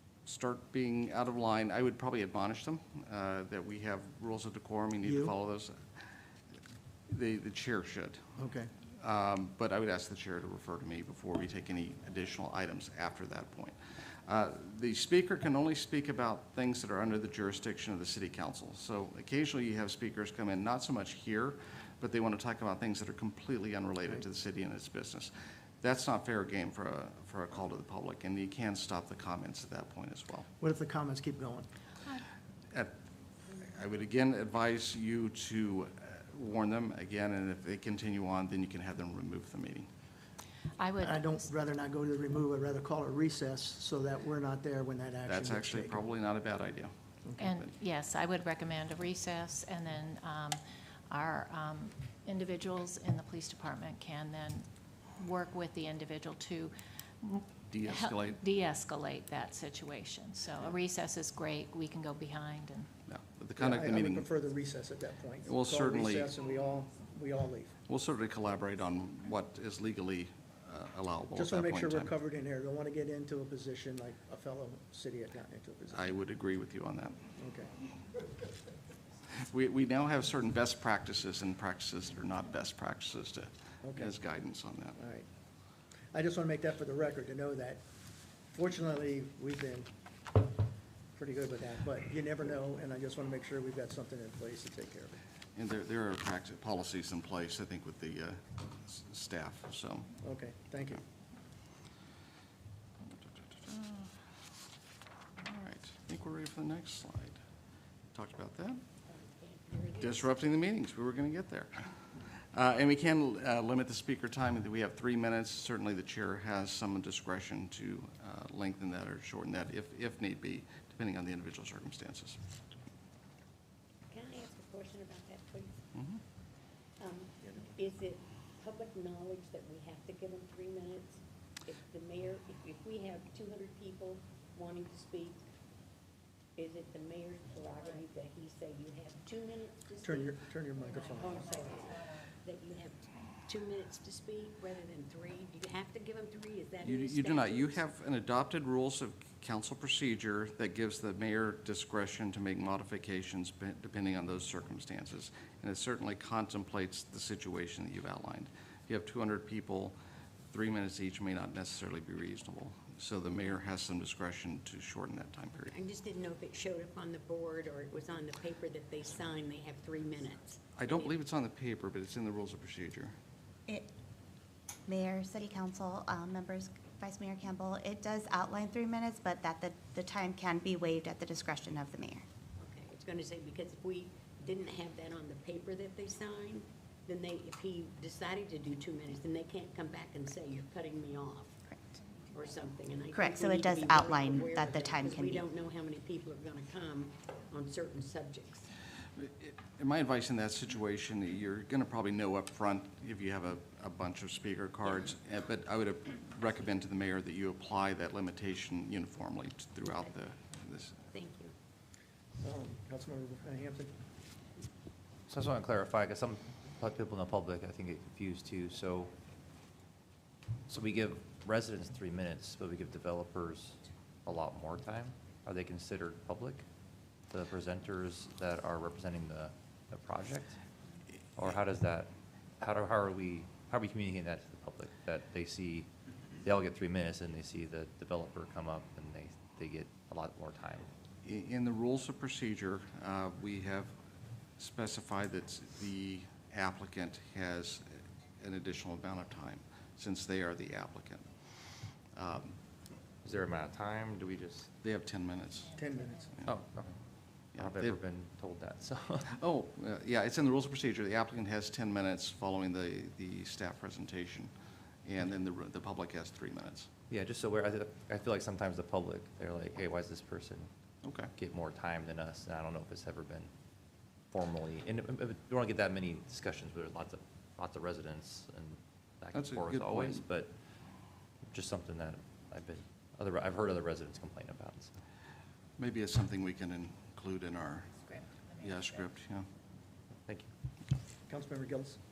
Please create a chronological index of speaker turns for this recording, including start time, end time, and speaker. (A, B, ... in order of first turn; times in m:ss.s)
0:00.2-0:05.8 A
0:05.0-0:05.4 B
0:07.1-0:08.2 A
0:08.4-0:08.7 B
0:09.0-0:30.5 A
0:30.6-0:31.7 B
0:33.6-0:39.9 A
0:40.8-0:41.5 C
0:41.0-0:46.1 B
0:45.3-0:47.7 A
0:47.4-1:02.9 C
0:57.7-0:58.4 A
1:03.1-1:04.3 A
1:03.6-1:07.8 B
1:05.4-1:06.4 A
1:07.9-1:12.1 A
1:11.3-1:16.1 B
1:15.9-1:17.2 A
1:17.4-1:17.7 B
1:19.4-1:25.0 A
1:23.8-1:24.2 B
1:25.0-1:25.3 B
1:26.1-1:27.8 B
1:28.5-1:29.9 B
1:31.2-1:35.2 B
1:35.6-1:40.1 A
1:40.2-1:41.0 B
1:43.1-1:44.1 A
1:45.4-1:47.4 A
1:48.1-1:48.8 A
1:49.1-1:50.3 D
1:50.0-2:02.4 A
2:04.1-2:05.8 D
2:06.0-2:06.2 A
2:07.0-2:15.5 D
2:07.4-2:07.7 B
2:16.6-2:20.4 D
2:20.0-2:21.4 B
2:21.0-2:27.8 D
2:21.4-2:22.0 C
2:26.8-2:40.0 A
2:40.5-2:45.8 A
2:45.6-2:51.1 D
2:50.8-2:53.2 A
2:54.9-3:02.2 E
3:02.6-3:11.6 D
3:12.3-3:18.7 D
3:13.1-3:15.5 E
3:19.2-3:31.1 A
3:29.8-3:30.1 D
3:31.1-3:31.5 D
3:32.4-3:33.9 B
3:35.3-3:39.1 F
3:40.7-3:46.7 F
3:47.3-3:50.6 F
3:51.4-3:55.9 F
3:56.4-4:00.9 F
4:01.2-4:04.0 A
4:04.6-4:11.2 A
4:12.2-4:12.6 A
4:13.2-4:14.7 F
4:14.8-4:15.8 A
4:15.7-4:16.4 B
4:16.4-4:17.0 F
4:17.5-4:18.0 A
4:17.6-4:19.4 F
4:19.3-4:24.5 A
4:25.0-4:26.9 A
4:27.1-4:30.7 F
4:31.0-4:31.3 A
4:31.4-4:33.5 F
4:34.3-4:40.5 F
4:39.3-4:40.2 A
4:41.5-4:44.9 F
4:45.8-4:49.5 A
4:48.0-4:49.0 C
4:51.3-4:52.0 B